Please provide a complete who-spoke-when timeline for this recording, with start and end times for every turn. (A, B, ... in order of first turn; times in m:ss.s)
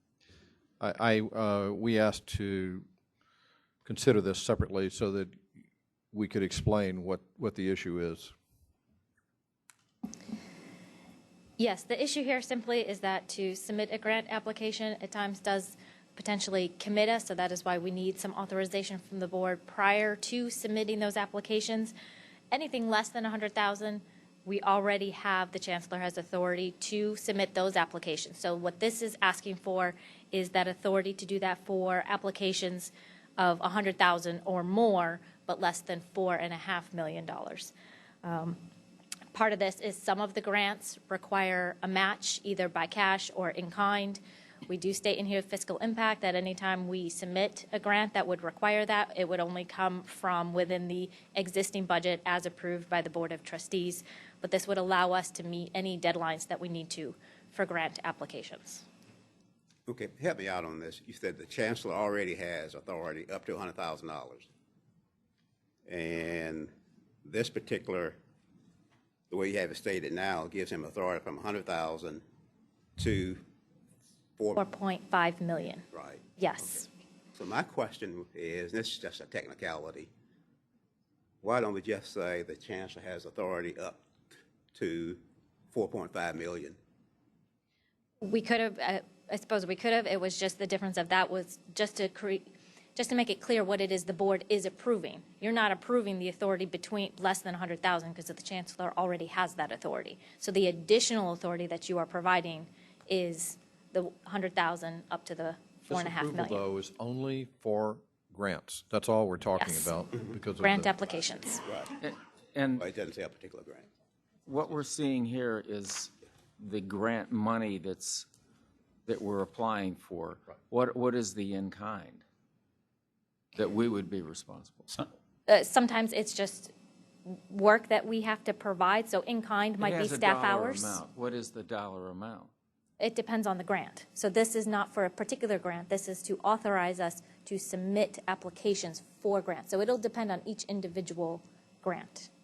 0:00.8-0:02.8 A
0:03.8-0:05.4 A
0:06.1-0:08.3 A
0:11.6-0:21.9 B
0:22.5-0:38.6 B
0:39.3-0:58.8 B
0:59.9-1:04.5 C
1:05.9-1:06.7 C
1:07.2-1:08.2 C
1:09.3-1:12.2 C
1:13.0-1:13.4 C
1:14.6-1:15.8 B
1:15.9-1:16.2 C
1:16.4-1:16.9 B
1:17.3-1:20.1 C
1:21.4-1:24.0 C
1:24.7-1:25.2 C
1:25.7-1:26.8 C
1:28.2-1:32.4 B
1:33.0-1:46.6 B
1:45.9-1:50.9 A
1:49.6-1:50.0 B
1:50.6-1:51.6 B
1:52.0-1:52.8 D
1:52.8-1:53.8 C
1:54.4-1:58.3 D
1:59.0-2:02.2 D
2:03.6-2:05.0 D
2:05.5-2:06.7 B
2:07.2-2:11.0 B
2:09.8-2:12.5 D
2:13.0-2:22.3 B